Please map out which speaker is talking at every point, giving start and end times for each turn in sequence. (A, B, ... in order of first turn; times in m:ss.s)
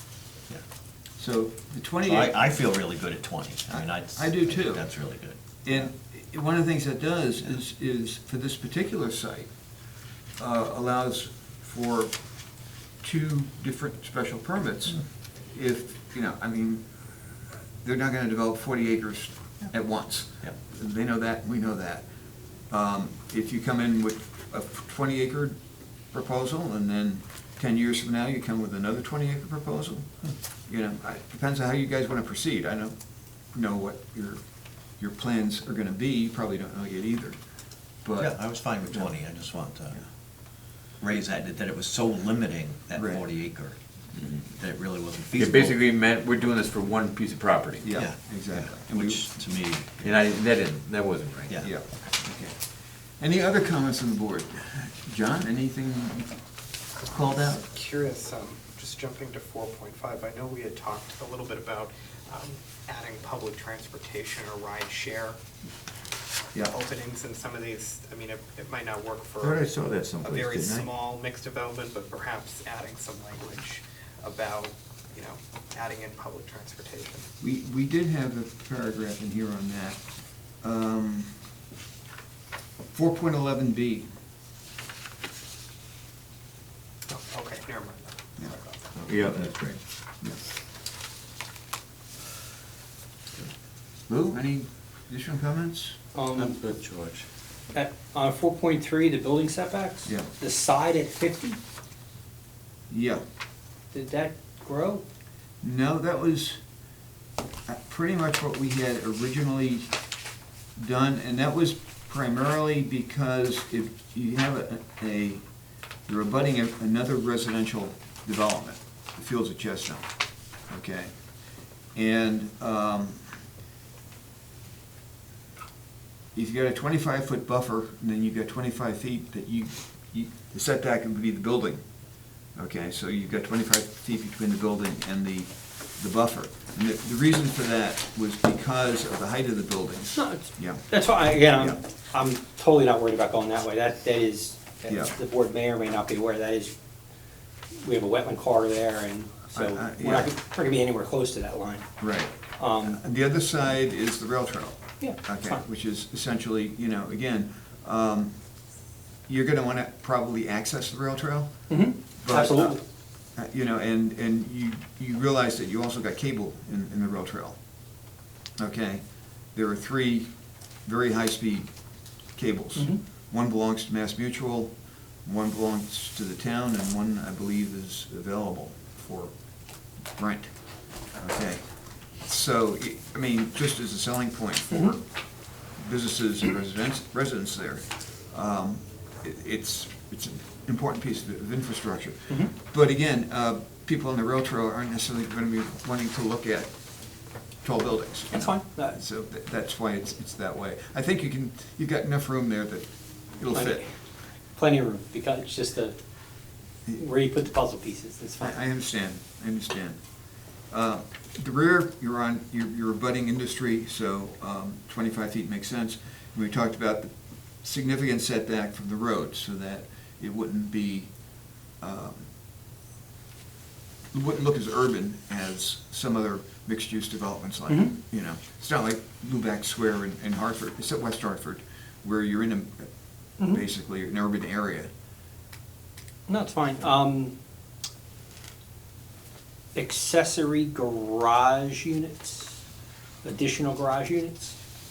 0:01.2-0:02.5 A
0:02.0-0:05.9 B
0:03.7-0:04.9 A
0:05.6-0:09.5 A
0:10.4-0:22.1 A
0:22.6-0:25.6 A
0:26.1-0:33.0 A
0:33.5-0:37.4 A
0:38.0-0:39.1 A
0:38.2-0:40.0 B
0:40.9-0:45.8 B
0:42.9-0:43.3 A
0:45.4-0:47.9 C
0:47.8-0:49.3 A
0:47.9-0:50.3 B
0:50.0-0:51.6 C
0:51.6-0:56.4 A
0:57.0-0:57.6 A
0:57.7-1:05.4 D
1:06.6-1:17.3 D
1:09.4-1:10.8 C
1:17.4-1:21.4 A
1:22.9-1:24.1 A
1:27.1-1:29.0 D
1:29.0-1:29.6 B
1:29.1-1:29.8 C
1:34.1-1:36.0 A
1:36.2-1:36.6 E
1:36.4-1:37.3 C
1:37.7-1:41.6 E
1:42.9-1:43.2 A
1:43.9-1:45.0 E
1:45.6-1:46.6 A
1:47.7-1:50.0 A
1:50.8-1:55.5 A
1:56.0-2:00.1 A
2:00.6-2:01.4 A
2:01.9-2:03.3 A
2:06.3-2:11.8 A
2:12.5-2:21.8 A
2:20.2-2:26.7 E
2:24.9-2:25.1 A
2:27.8-2:31.9 E
2:29.5-2:30.3 A
2:32.0-2:38.5 A
2:32.6-2:33.0 E
2:35.0-2:35.6 E
2:39.3-2:42.8 A
2:41.7-2:42.8 E
2:43.4-2:47.6 A
2:48.6-2:51.7 A
2:52.3-3:05.0 A
3:05.8-3:23.8 A
3:18.3-3:19.0 E
3:23.5-3:23.9 E
3:24.6-3:26.0 E
3:27.0-3:28.6 E
3:28.4-3:30.1 A
3:30.7-3:42.3 A
3:44.1-3:54.9 A
3:47.7-3:48.0 E
3:56.3-3:57.4 E
3:59.8-4:02.6 E
4:03.2-4:04.5 E